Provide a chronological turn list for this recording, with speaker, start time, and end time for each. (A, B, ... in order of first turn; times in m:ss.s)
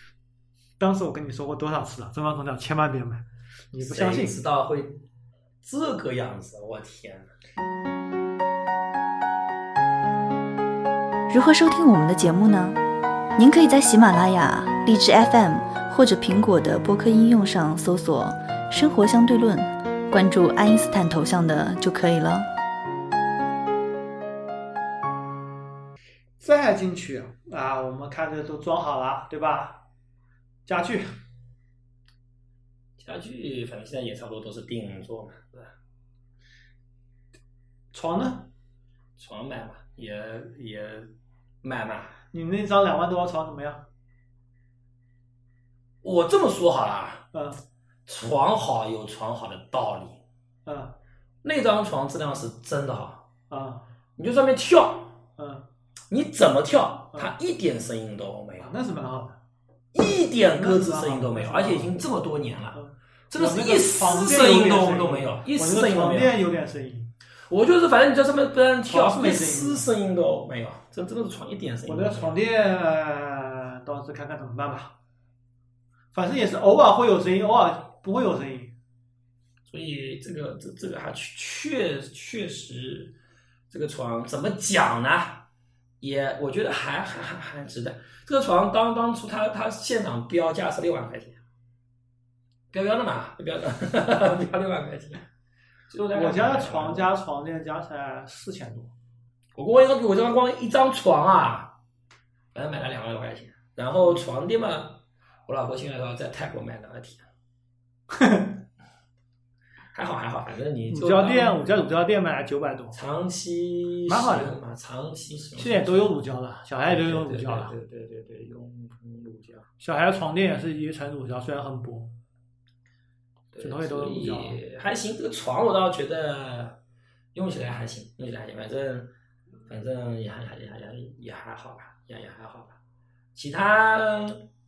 0:00.8-0:04.4 A
0:03.8-0:05.0 B
0:05.6-0:07.3 B
0:11.3-0:12.8 C
0:13.4-0:22.5 C
0:26.4-0:29.8 A
0:30.6-0:31.1 A
0:33.0-0:35.7 B
0:37.9-0:38.5 A
0:39.2-0:41.1 B
0:41.6-0:42.2 B
0:42.3-0:43.8 A
0:46.0-0:47.2 B
0:47.3-0:47.6 A
0:48.0-0:50.2 B
0:50.6-0:50.9 A
0:51.4-0:53.2 B
0:53.5-0:53.9 A
0:54.2-0:55.2 B
0:55.4-0:55.6 A
0:56.1-0:58.7 B
0:58.6-0:59.4 A
0:59.9-1:02.8 B
1:00.5-1:01.9 A
1:02.7-1:07.1 A
1:03.3-1:06.3 B
1:07.5-1:12.4 B
1:08.9-1:09.8 A
1:11.8-1:15.0 A
1:16.1-1:18.7 A
1:19.7-1:23.1 B
1:23.7-1:25.5 B
1:26.0-1:31.4 B
1:32.7-1:35.2 B
1:35.9-1:37.1 B
1:36.1-1:38.9 A
1:39.5-1:41.7 B
1:42.5-1:47.3 B
1:48.1-1:48.5 A
1:49.9-1:51.7 B
1:50.9-1:53.0 A
1:52.9-1:56.1 B
1:54.1-1:54.6 A
1:55.6-1:57.7 A
1:56.8-1:59.7 B
1:59.8-2:02.1 A
2:03.5-2:06.8 B
2:03.6-2:04.6 A
2:07.3-2:09.1 B
2:09.6-2:12.8 B
2:13.3-2:14.5 B